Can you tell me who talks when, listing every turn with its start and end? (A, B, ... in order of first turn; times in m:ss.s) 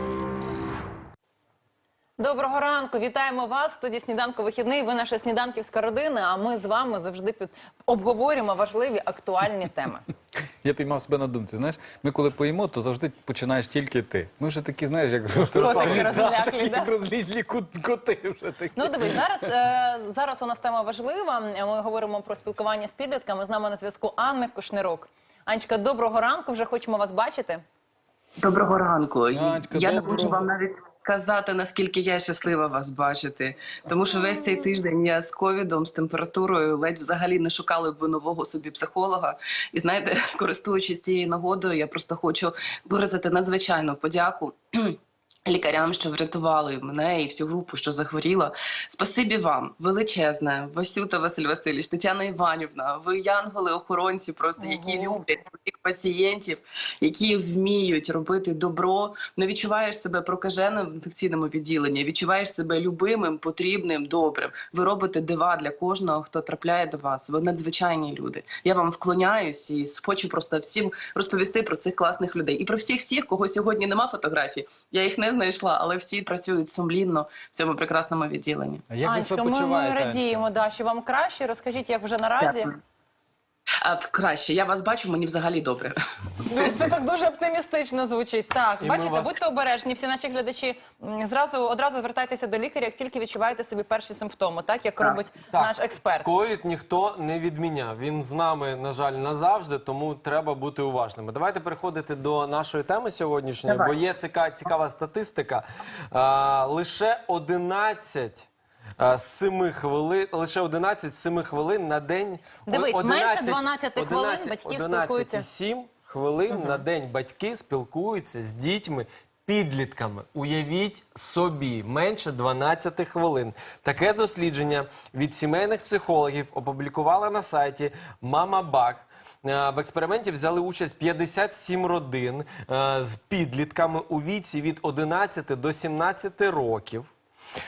0:02.2-0:10.0 A
0:10.6-0:19.2 B
0:15.3-0:16.1 C
0:15.6-0:16.9 A
0:18.8-0:27.6 A
0:28.4-1:18.8 D
0:29.3-0:30.4 B
0:54.6-0:55.2 A
1:18.9-1:20.4 B
1:19.0-1:22.7 A
1:22.4-1:22.7 D
1:23.8-1:26.0 D
1:26.5-1:36.3 A
1:28.8-1:29.4 C
1:35.5-2:17.1 C
1:43.6-1:43.9 D
1:52.6-1:55.4 A